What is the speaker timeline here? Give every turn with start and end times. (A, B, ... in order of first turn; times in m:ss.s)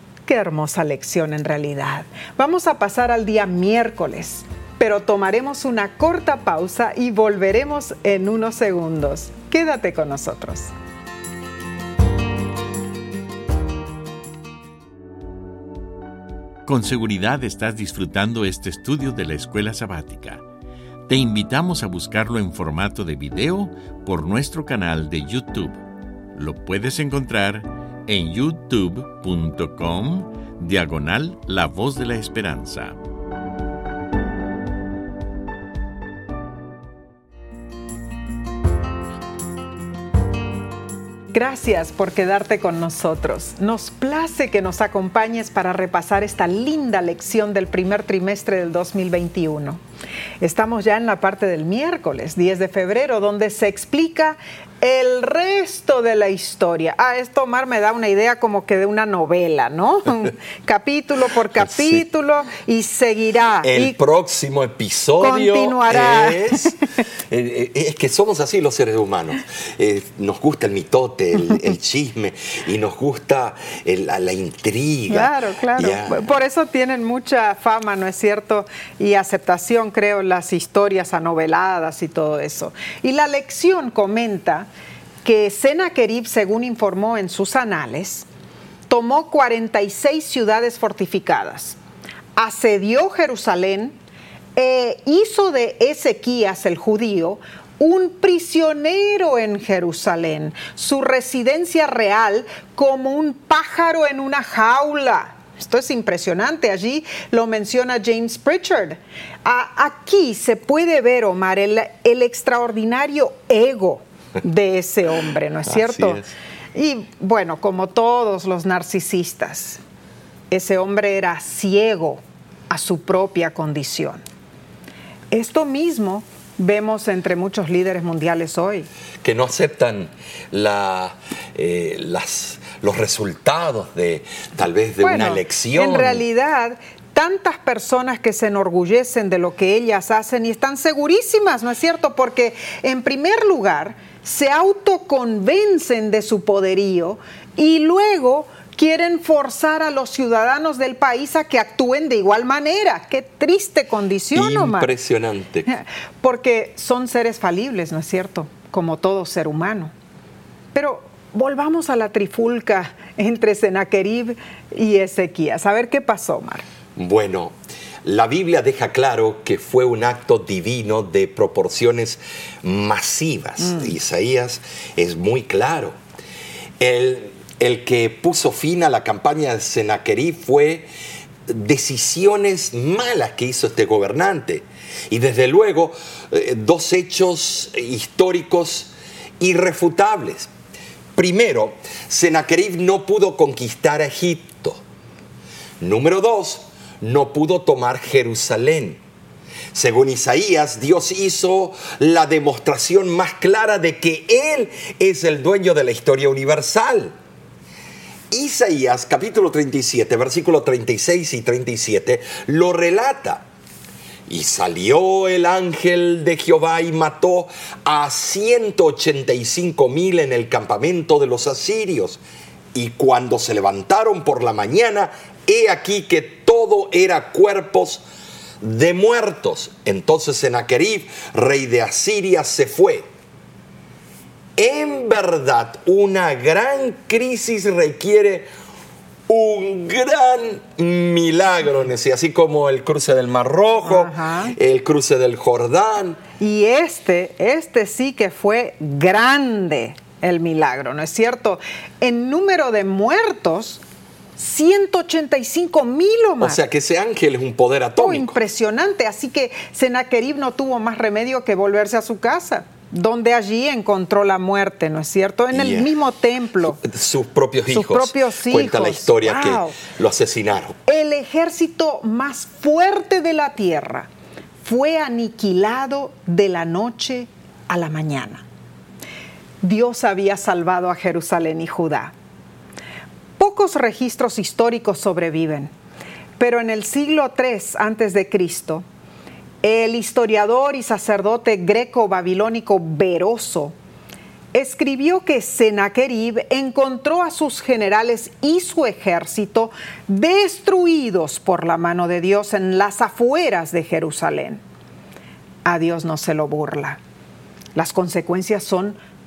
0:00.3-0:10.7 A
0:16.6-0:20.4 B
0:21.1-0:25.8 B
0:26.3-0:33.0 B
0:41.3-0:49.8 A
0:50.4-1:04.0 A
1:03.6-1:06.8 C
1:05.2-1:06.8 A
1:07.3-1:16.3 C
1:15.1-1:24.7 A
1:25.2-1:28.2 A
1:28.9-1:31.8 A
1:32.4-1:34.0 A
1:34.6-1:56.2 A
1:55.7-1:56.3 C
1:56.7-1:59.8 A
2:00.5-2:04.2 A
2:05.3-2:08.9 A
2:09.2-2:16.2 C
2:15.0-2:34.9 A
2:34.3-2:35.7 C
2:35.7-2:39.9 A
2:40.7-2:46.6 A
2:47.0-2:56.0 C
2:56.8-3:00.9 C
3:01.5-3:10.5 C
3:11.2-3:14.8 C
3:15.8-3:19.0 C
3:19.7-3:27.1 C
3:28.3-3:33.4 C
3:34.3-3:42.2 C
3:42.7-3:48.0 C
3:48.6-3:53.1 C
3:54.6-3:58.5 C
3:59.3-4:06.2 C
4:03.8-4:04.6 A
4:06.4-4:13.8 A
4:14.4-4:16.6 A
4:16.4-4:18.4 C
4:18.0-4:26.8 A
4:25.5-4:25.9 C
4:26.6-4:30.8 C
4:27.7-4:29.8 A
4:30.9-4:34.1 A
4:34.6-4:38.4 A
4:39.6-4:42.1 A
4:43.4-4:45.7 A
4:46.4-4:48.8 A
4:49.6-4:53.7 A
4:54.5-5:04.6 A
5:05.6-5:07.0 A
5:07.7-5:09.0 A